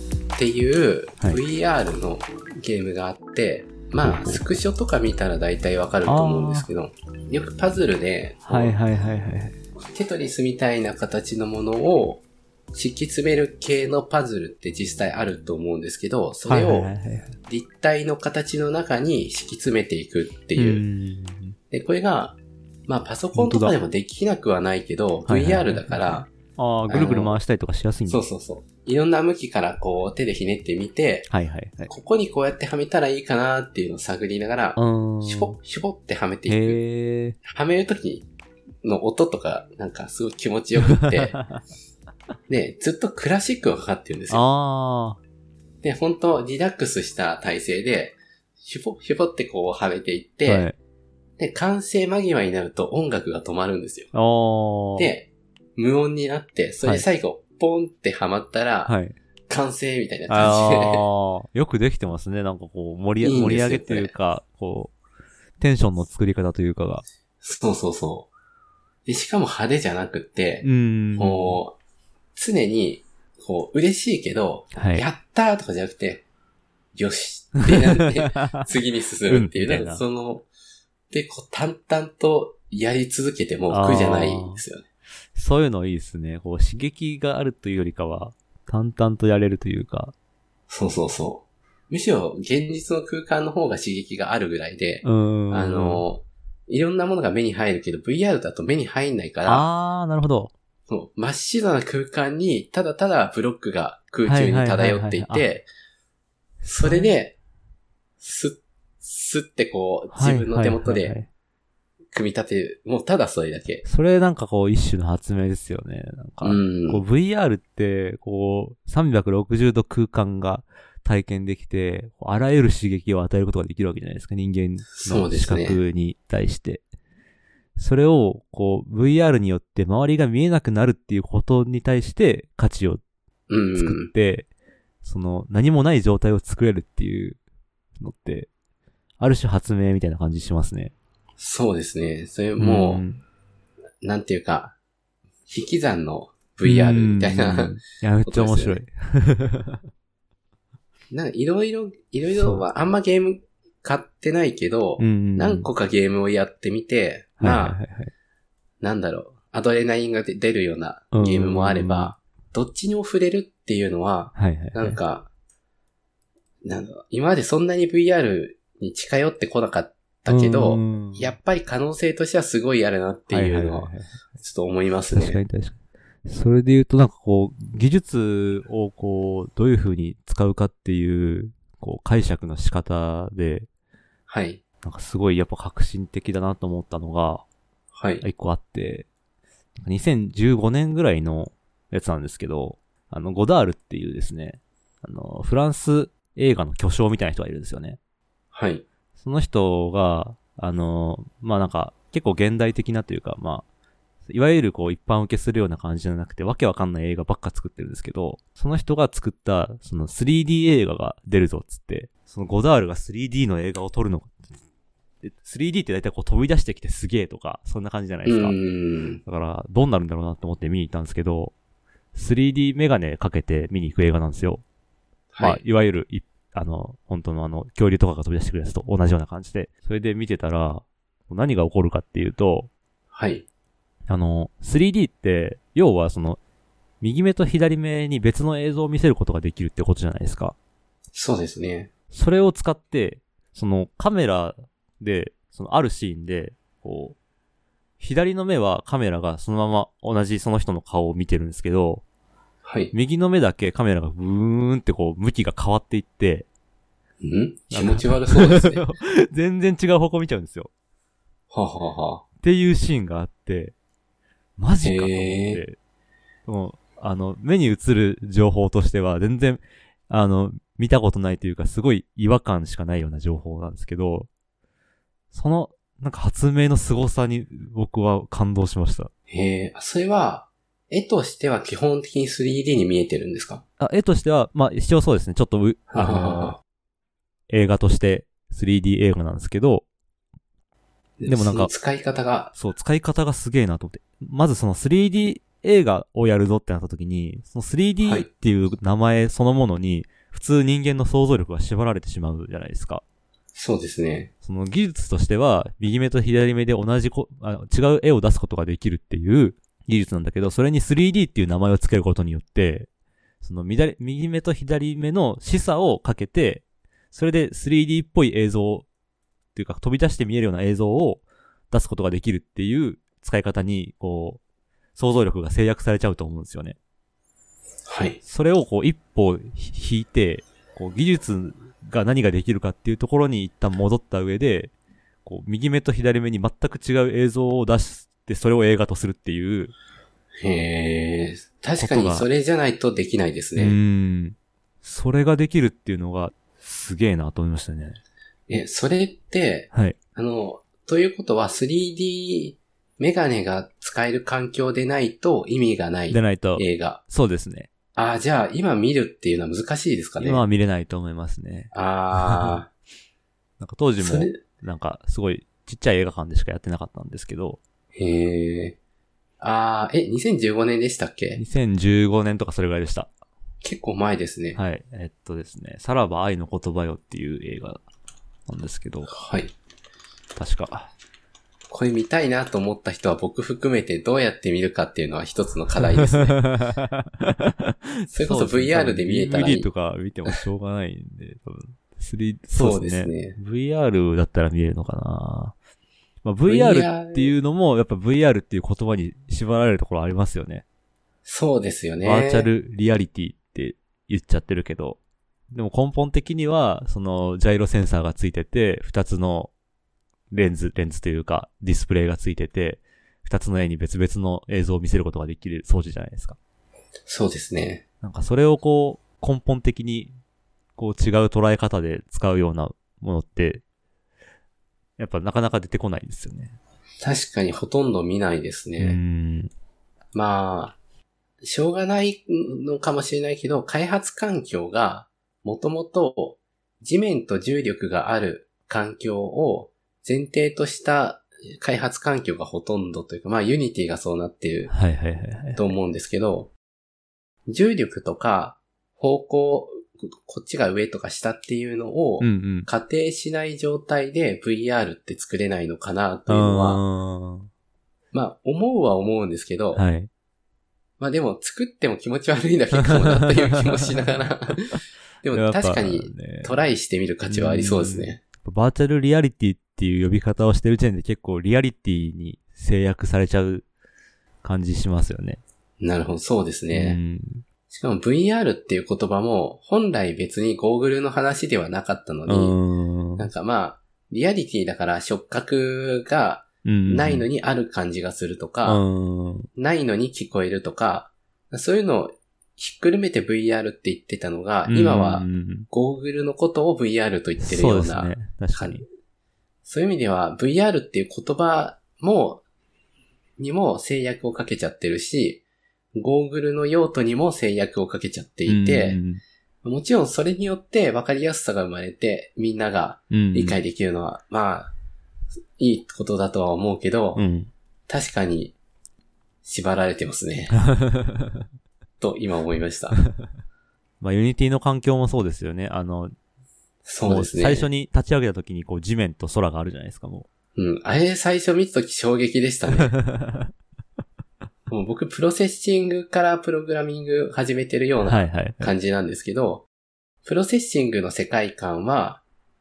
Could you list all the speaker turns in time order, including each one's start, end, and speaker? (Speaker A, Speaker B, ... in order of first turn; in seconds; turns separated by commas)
Speaker A: 0.4-8.7, Speaker B: 4.0-4.4, Speaker B: 6.1-6.7, Speaker B: 8.5-9.6, Speaker A: 9.9-16.9, Speaker B: 16.5-17.3, Speaker A: 17.5-20.8, Speaker B: 20.6-21.6, Speaker A: 21.7-26.3, Speaker B: 23.3-23.8, Speaker B: 25.3-28.2, Speaker A: 26.9-27.4, Speaker A: 28.1-31.3, Speaker B: 31.3-31.9, Speaker A: 31.9-36.8, Speaker B: 34.8-35.6, Speaker B: 36.5-37.4, Speaker A: 37.4-38.3, Speaker A: 38.8-41.4, Speaker B: 40.9-41.5, Speaker A: 42.5-44.4, Speaker B: 44.3-45.2, Speaker A: 45.8-50.7, Speaker B: 50.5-50.8, Speaker A: 51.4-54.1, Speaker B: 54.1-55.1, Speaker A: 55.0-58.9, Speaker B: 58.9-59.1, Speaker A: 59.5-61.1, Speaker B: 60.3-64.9, Speaker A: 63.2-64.1, Speaker B: 65.6-67.0, Speaker A: 67.4-68.3, Speaker A: 69.1-70.7, Speaker B: 70.6-71.6, Speaker A: 71.2-71.8, Speaker A: 72.3-76.2, Speaker B: 74.8-75.1, Speaker A: 77.0-80.5, Speaker B: 77.7-78.7, Speaker B: 79.3-80.0, Speaker A: 81.1-84.8, Speaker B: 83.7-84.6, Speaker B: 85.3-90.1, Speaker A: 90.7-99.7, Speaker B: 95.0-96.1, Speaker B: 99.5-100.5, Speaker A: 100.9-105.7, Speaker B: 104.2-105.5, Speaker A: 106.6-107.4, Speaker B: 106.8-107.1, Speaker A: 108.2-111.2, Speaker B: 110.1-111.3, Speaker A: 112.1-113.8, Speaker B: 113.8-126.8, Speaker A: 116.4-117.0, Speaker A: 125.0-125.8, Speaker B: 127.8-133.0, Speaker A: 133.5-134.1, Speaker B: 133.8-134.5, Speaker B: 135.0-137.4, Speaker B: 138.0-138.5, Speaker B: 139.2-140.9, Speaker A: 141.4-143.0, Speaker B: 142.6-143.2, Speaker A: 144.0-144.8, Speaker A: 145.5-147.7, Speaker B: 146.6-149.8, Speaker A: 148.2-148.8, Speaker A: 151.1-157.8, Speaker B: 152.3-152.7, Speaker B: 155.0-155.7, Speaker B: 157.4-158.1, Speaker A: 158.8-165.3, Speaker B: 161.1-162.1, Speaker B: 164.3-165.0, Speaker A: 166.7-175.4, Speaker B: 170.3-171.4, Speaker B: 173.3-174.1, Speaker B: 175.1-183.7, Speaker A: 184.3-184.6, Speaker B: 184.8-187.4, Speaker A: 187.9-188.2, Speaker B: 188.2-189.1, Speaker B: 189.8-198.0, Speaker A: 198.5-198.8, Speaker B: 199.2-203.7, Speaker B: 204.3-214.3, Speaker B: 215.2-218.6, Speaker A: 218.3-219.2, Speaker B: 219.3-221.5, Speaker B: 222.1-224.6, Speaker A: 225.3-225.6, Speaker B: 225.4-232.7, Speaker A: 233.1-233.5, Speaker B: 234.1-236.4, Speaker B: 237.0-240.6, Speaker A: 241.2-241.9, Speaker B: 242.1-247.2, Speaker B: 248.0-252.0, Speaker A: 252.7-252.9, Speaker B: 252.9-256.5, Speaker A: 257.2-258.8, Speaker B: 257.7-260.7, Speaker A: 261.5-262.2, Speaker B: 262.4-263.7, Speaker B: 264.6-265.8, Speaker A: 264.8-265.6, Speaker B: 266.5-274.3, Speaker B: 275.3-279.1, Speaker A: 279.3-283.6, Speaker B: 283.8-286.6, Speaker A: 285.9-286.6, Speaker B: 287.5-289.9, Speaker A: 291.2-292.5, Speaker B: 291.3-291.7, Speaker B: 292.6-303.0, Speaker A: 303.6-304.3, Speaker B: 304.4-312.9, Speaker B: 313.4-318.9, Speaker B: 319.6-324.4, Speaker B: 325.0-326.8, Speaker A: 327.9-328.2, Speaker B: 328.2-334.7, Speaker B: 335.2-339.7, Speaker A: 340.4-343.8, Speaker B: 341.8-342.3, Speaker B: 343.6-348.0, Speaker A: 348.5-357.0, Speaker B: 356.1-357.7, Speaker A: 358.0-360.4, Speaker B: 360.2-362.6, Speaker A: 361.7-362.7, Speaker B: 363.6-367.6, Speaker A: 364.0-364.4, Speaker A: 367.9-368.8, Speaker A: 369.4-371.4, Speaker B: 371.4-373.1, Speaker A: 373.6-374.6, Speaker B: 374.6-377.8, Speaker B: 378.5-379.1, Speaker A: 379.1-379.5, Speaker B: 380.4-380.9, Speaker A: 381.7-386.4, Speaker B: 386.0-395.6, Speaker A: 388.1-389.7, Speaker A: 392.5-393.4, Speaker B: 396.2-400.6, Speaker A: 396.5-397.4, Speaker A: 401.2-402.5, Speaker B: 402.0-405.0, Speaker B: 405.5-409.5, Speaker B: 410.3-416.4, Speaker A: 417.1-417.8, Speaker B: 418.0-420.1, Speaker B: 420.8-423.6, Speaker B: 425.0-426.6, Speaker A: 427.0-429.0, Speaker B: 428.8-429.5, Speaker A: 430.1-430.8, Speaker A: 431.4-444.7, Speaker B: 444.7-445.6, Speaker A: 445.6-446.5, Speaker A: 447.5-456.8, Speaker B: 452.2-452.7, Speaker B: 456.3-457.5, Speaker A: 458.1-459.8, Speaker B: 459.7-460.1, Speaker A: 461.0-468.2, Speaker B: 462.8-463.4, Speaker B: 465.2-466.6, Speaker B: 467.3-473.7, Speaker B: 474.4-475.4, Speaker A: 475.8-477.0, Speaker B: 476.7-477.4, Speaker A: 477.7-482.6, Speaker B: 482.3-483.3, Speaker A: 483.2-488.8, Speaker B: 486.6-487.3, Speaker B: 488.6-489.5, Speaker A: 489.6-498.8, Speaker B: 494.7-495.7, Speaker B: 497.4-498.9, Speaker A: 499.7-502.4, Speaker A: 503.4-505.4, Speaker A: 506.0-509.0, Speaker B: 508.5-509.2, Speaker A: 509.6-514.7, Speaker B: 513.1-513.6, Speaker A: 515.6-517.2, Speaker B: 517.1-517.5, Speaker A: 517.9-518.6, Speaker A: 519.4-520.6, Speaker B: 520.6-521.5, Speaker A: 522.0-523.0, Speaker B: 524.0-526.1, Speaker A: 526.9-527.7, Speaker B: 527.1-530.3, Speaker A: 530.6-532.9, Speaker B: 532.8-533.5, Speaker A: 534.7-539.7, Speaker B: 538.0-538.7, Speaker A: 540.2-542.2